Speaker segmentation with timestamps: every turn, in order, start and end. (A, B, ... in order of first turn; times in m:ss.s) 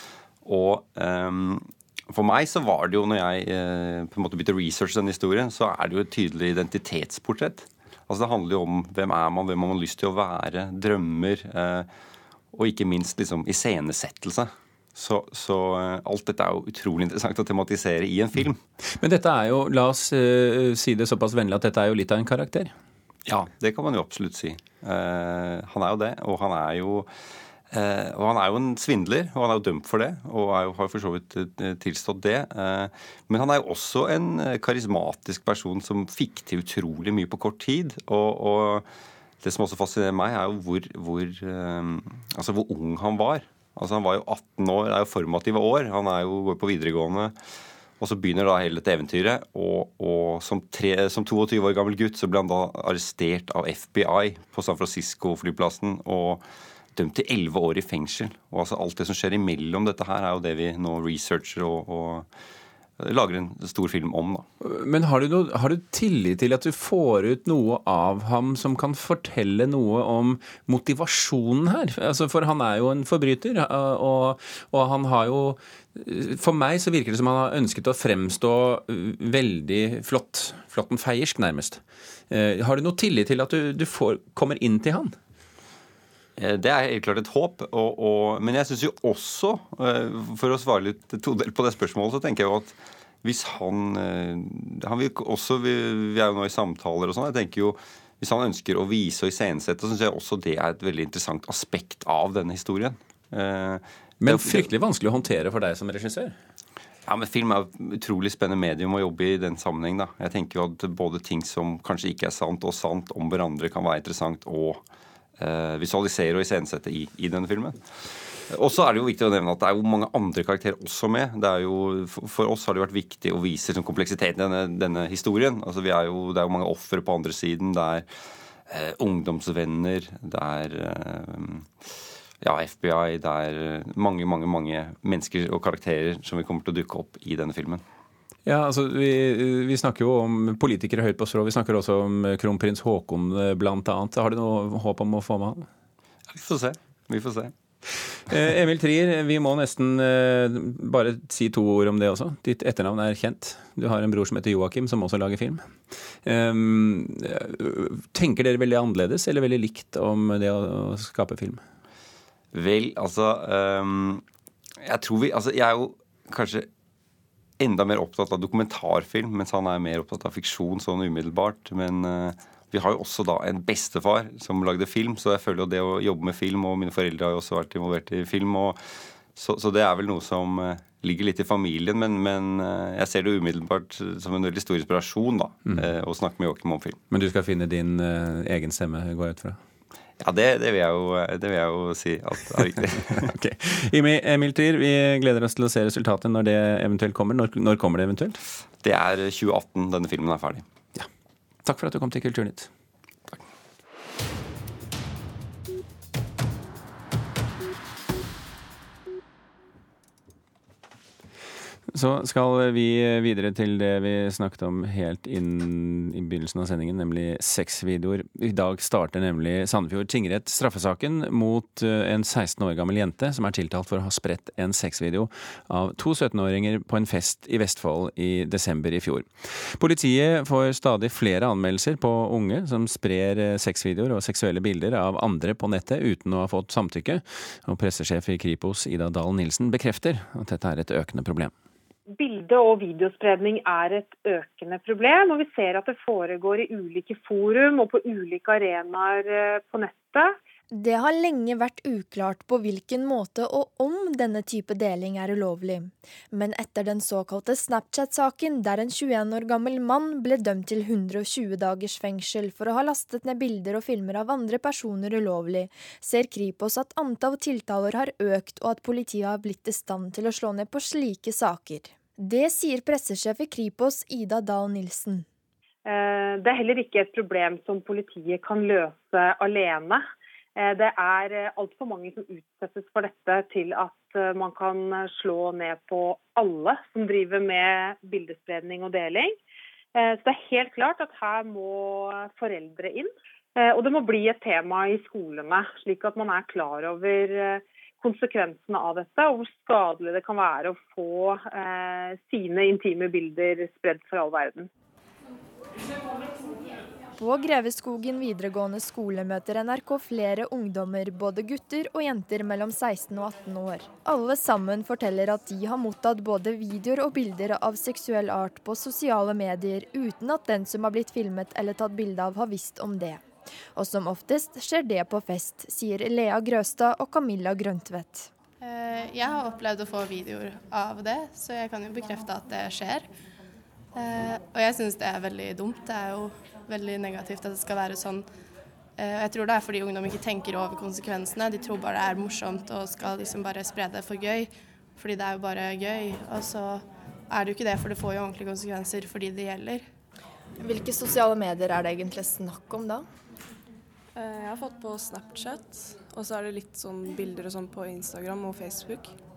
0:00.4-0:11.9 A
0:12.5-0:18.6 A
0:19.0-0:22.8 B
0:23.3-0:27.1 A
0:27.7-0:38.9 A
0:39.4-0:47.4 A
0:48.0-0:56.4 A
0:57.0-1:02.3 A
1:03.0-1:04.4 A
1:04.6-1:25.2 B
1:26.4-1:44.7 A
1:44.2-1:46.4 B
1:47.1-1:54.8 A
1:55.4-1:57.8 A
1:58.5-2:08.1 A
2:08.7-2:11.7 A
2:12.4-2:17.8 A
2:18.5-2:25.7 B
2:26.3-2:27.5 A
2:28.3-2:35.6 B
2:36.2-2:41.6 B
2:42.5-2:44.2 A
2:44.8-2:46.7 A
2:47.6-2:58.8 A
2:59.3-3:07.0 A
3:07.1-3:09.6 B
3:10.2-3:13.3 A
3:13.1-3:18.4 B
3:18.8-3:20.6 A
3:21.6-3:22.7 B
3:31.9-4:01.5 B
4:02.2-4:10.4 C
4:10.7-4:35.2 D
4:35.8-4:40.0 C
4:40.6-4:49.4 C
4:50.0-5:04.7 C
5:07.2-5:23.2 D
5:23.8-5:28.3 D
5:28.6-5:33.1 E
5:33.9-5:38.3 E
5:39.0-5:49.9 E
5:50.6-5:53.1 D
5:54.2-5:59.1 F